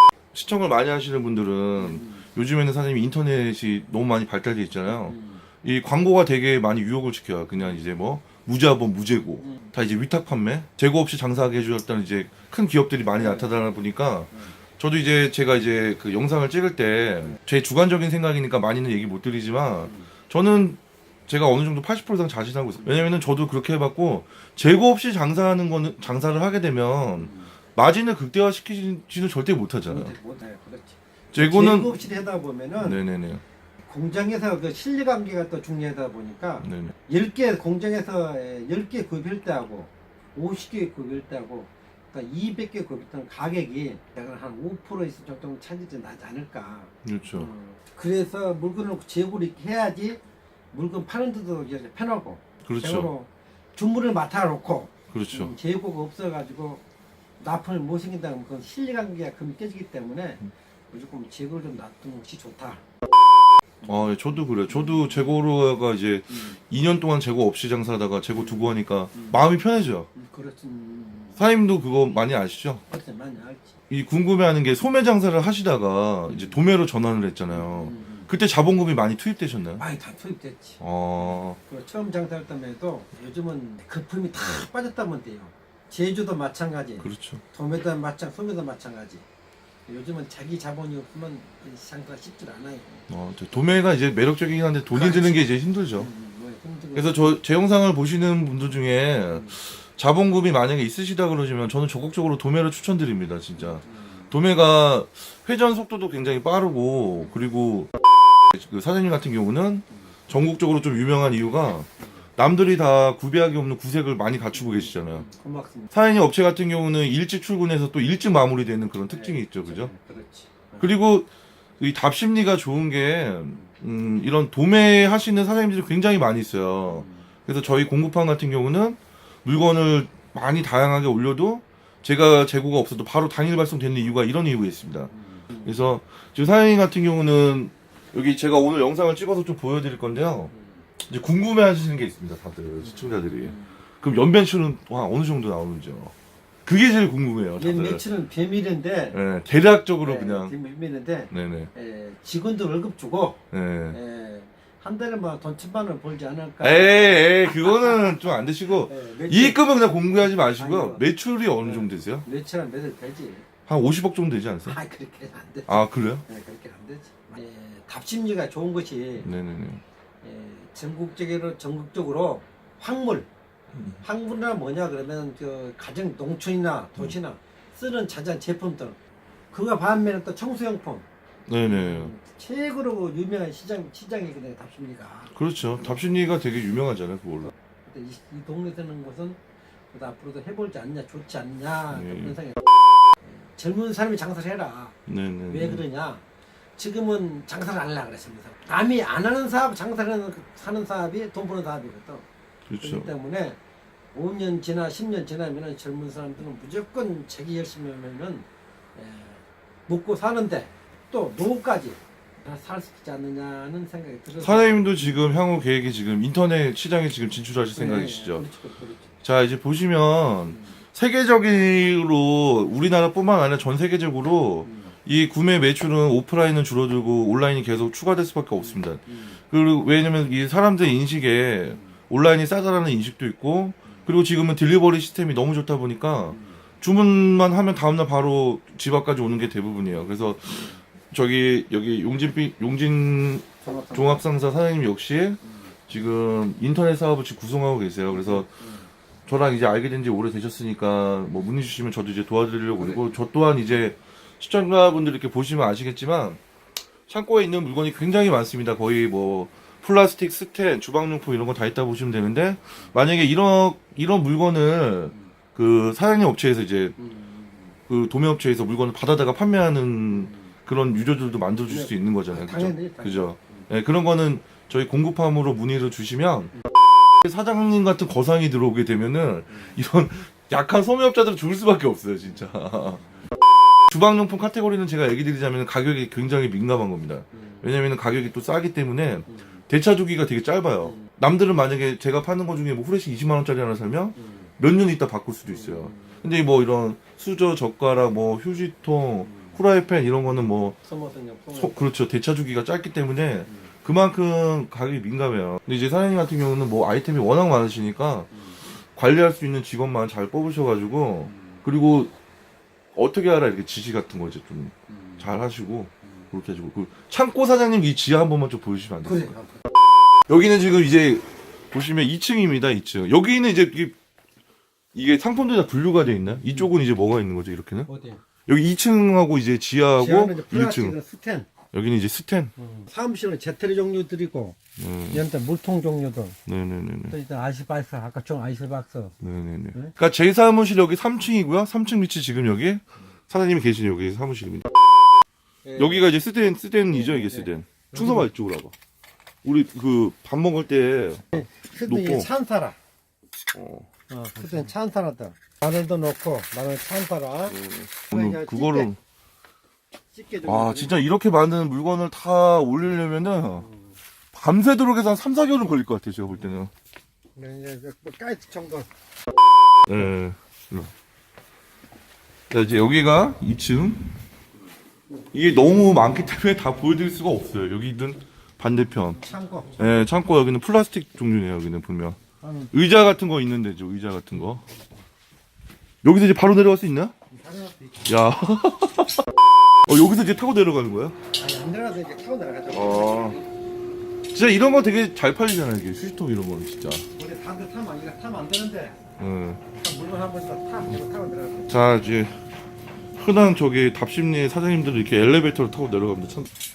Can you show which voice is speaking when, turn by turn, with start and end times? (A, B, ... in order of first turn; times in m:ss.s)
0:00.3-0:30.1 A
0:01.8-0:02.2 B
0:05.0-0:05.4 B
0:09.4-0:09.7 B
0:13.2-0:13.5 B
0:27.2-0:27.5 B
0:29.9-0:33.0 B
0:31.3-0:32.0 A
0:32.8-0:33.4 A
0:33.8-0:50.2 B
0:36.6-0:36.9 A
0:47.0-0:47.5 A
0:50.7-0:56.8 B
0:52.6-0:53.1 A
0:55.1-0:55.5 A
0:57.4-1:02.8 B
1:03.8-1:04.1 B
1:03.8-1:10.1 A
1:04.7-1:05.2 B
1:06.3-1:06.6 B
1:08.4-1:09.4 B
1:10.1-1:11.4 B
1:11.4-1:12.8 A
1:12.9-1:13.7 B
1:13.9-1:19.8 A
1:16.3-1:16.6 B
1:17.5-1:18.3 B
1:19.8-1:29.2 B
1:20.8-1:21.6 A
1:27.0-1:27.4 A
1:29.9-1:33.1 B
1:33.1-1:36.1 A
1:34.9-1:37.4 B
1:36.9-1:47.9 A
1:43.6-1:44.3 B
1:48.5-1:55.2 A
1:54.5-1:55.9 B
1:55.9-1:59.9 A
1:59.1-2:00.9 B
2:00.8-2:01.3 A
2:01.8-2:20.5 A
2:06.9-2:07.2 B
2:15.2-2:15.6 B
2:20.5-2:20.8 B
2:21.0-2:26.1 A
2:22.8-2:23.6 B
2:26.6-2:28.0 A
2:27.6-2:29.2 B
2:29.1-2:30.5 A
2:30.0-2:39.6 B
2:31.3-2:31.7 A
2:33.5-2:34.0 A
2:36.6-2:42.2 A
2:40.2-2:41.0 B
2:41.6-2:43.4 B
2:43.7-2:44.8 A
2:44.6-2:49.3 B
2:45.7-2:46.2 A
2:49.2-2:49.8 A
2:50.2-2:53.3 B
2:54.0-2:59.0 B
2:59.5-3:01.0 B
3:01.5-3:02.1 A
3:01.6-3:05.3 B
3:05.3-3:07.5 A
3:07.5-3:09.4 B
3:09.9-3:12.6 B
3:11.9-3:12.4 A
3:13.2-3:14.9 B
3:15.1-3:15.8 A
3:15.5-3:16.2 B
3:16.8-3:22.2 B
3:22.7-3:23.1 A
3:22.8-3:23.6 B
3:24.1-3:35.3 B
3:34.4-3:38.4 A
3:37.7-3:39.1 B
3:39.2-4:08.5 A
3:44.6-3:44.9 B
3:48.6-3:49.3 B
4:03.6-4:04.2 B
4:08.1-4:08.9 B
4:09.3-4:16.4 A
4:12.8-4:13.2 B
4:17.1-4:26.9 A
4:27.0-4:27.7 B
4:27.9-4:36.5 A
4:30.1-4:30.5 B
4:31.7-4:33.7 B
4:37.2-4:43.0 A
4:43.9-5:00.8 A
4:47.3-4:47.6 B
4:50.8-4:51.1 B
4:54.2-4:54.5 B
4:55.5-4:56.2 B
4:59.2-4:59.6 B
5:00.8-5:01.9 B
5:01.5-5:08.3 A
5:08.9-5:12.1 A
5:11.3-5:11.6 B
5:12.9-5:19.3 A
5:14.9-5:15.2 B
5:19.0-5:19.6 B
5:20.3-5:23.9 A
5:24.9-5:27.9 A
5:27.9-5:28.2 B
5:28.5-5:31.0 A
5:30.0-5:31.5 B
5:31.7-5:32.5 A
5:32.6-5:34.6 B
5:34.8-5:35.2 A
5:35.1-5:36.4 B
5:36.4-5:37.1 A
5:37.1-5:39.1 B
5:39.2-5:44.7 A
5:45.6-5:46.1 B
5:45.8-5:48.7 A
5:46.9-5:48.3 B
5:49.4-5:52.3 A
5:51.3-5:52.8 B
5:53.5-5:53.9 A
5:54.1-5:57.6 B
5:54.4-5:54.7 A
5:57.5-5:59.0 A
5:58.1-5:58.9 B
6:00.1-6:01.0 B
6:00.4-6:03.6 A
6:03.6-6:04.0 B
6:04.3-6:06.7 A
6:07.4-6:08.9 B
6:09.9-6:10.9 A
6:12.5-6:14.1 A
6:15.3-6:19.2 A
6:19.2-6:19.9 B
6:19.8-6:22.2 A
6:22.4-6:22.7 B
6:22.7-6:24.6 A
6:26.0-6:27.1 A
6:27.3-6:28.2 B
6:28.1-6:29.2 A
6:29.9-6:31.2 A
6:31.3-6:33.4 B
6:32.7-6:33.4 A
6:34.3-6:37.0 A
6:37.1-6:39.0 B
6:39.2-6:39.6 A
6:39.7-6:41.8 B
6:41.7-6:42.3 A
6:43.2-6:46.5 A